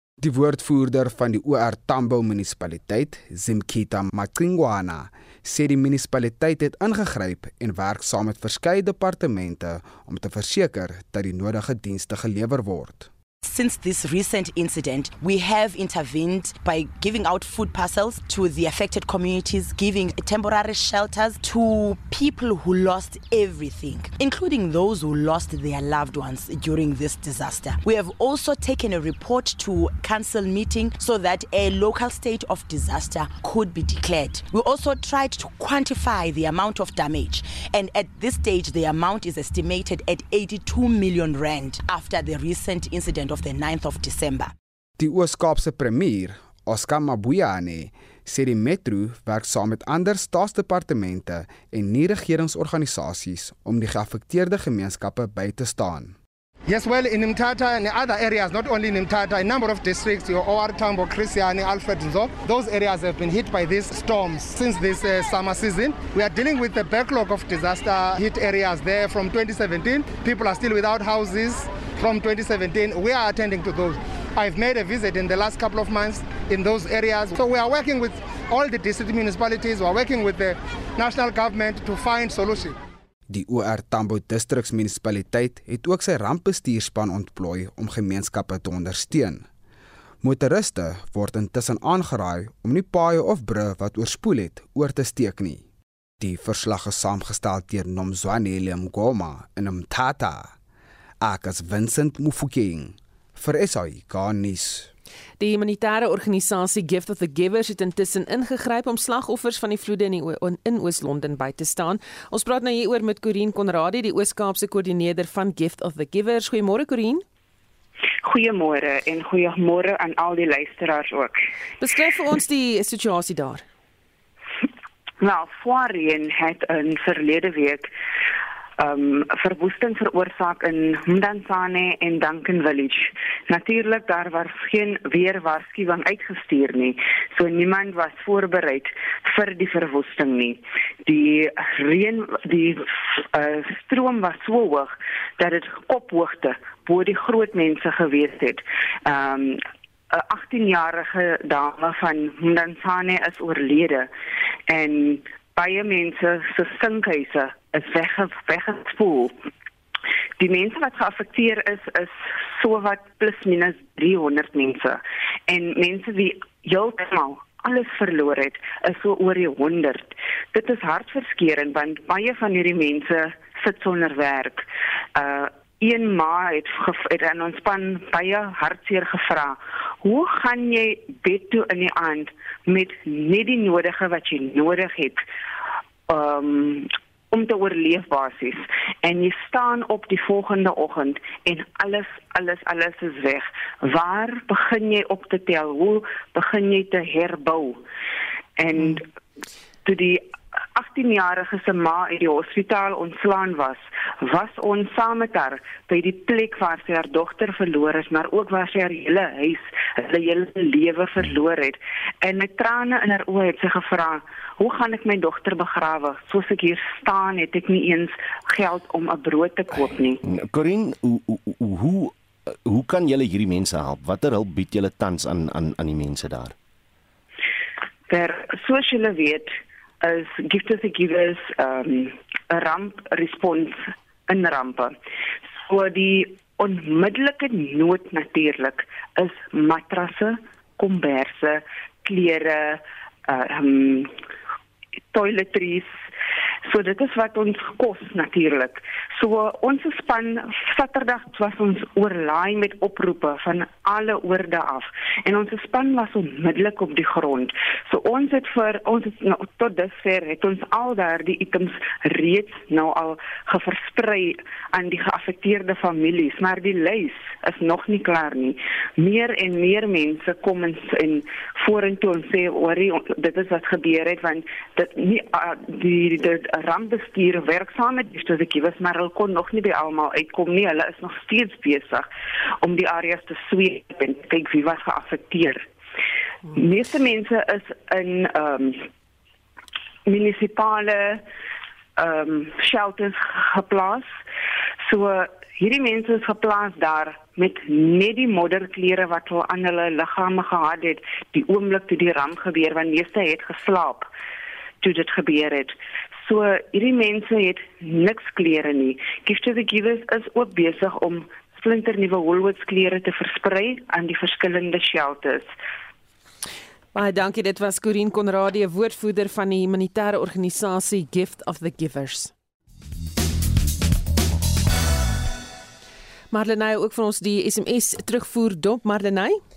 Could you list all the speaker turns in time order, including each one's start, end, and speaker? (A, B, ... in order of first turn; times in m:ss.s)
0:00.2-0:13.1 A
0:13.4-0:44.5 B
0:45.0-0:56.2 A
0:56.7-1:22.8 C
1:23.3-1:29.5 A
1:30.2-1:35.6 A
1:36.2-1:40.6 A
1:41.2-1:44.9 A
1:45.4-1:57.2 D
1:58.2-2:01.4 E
2:01.8-2:03.6 D
2:05.2-2:07.9 E
2:08.8-2:34.1 E
2:34.7-2:39.4 E
2:40.4-3:05.2 E
3:06.1-3:17.8 E
3:18.6-3:19.1 E
3:19.8-3:40.2 E
3:40.3-3:42.1 F
3:42.7-3:46.5 F
3:48.1-3:55.0 E
3:55.6-4:04.1 E
4:05.1-4:05.9 E
4:06.7-4:42.1 E
4:42.6-4:45.7 E
4:46.5-4:48.9 E
4:50.0-4:51.2 E
4:52.0-4:54.1 E
4:54.8-5:04.1 E
5:04.8-5:15.5 E
5:17.0-5:22.3 D
5:26.3-5:29.4 D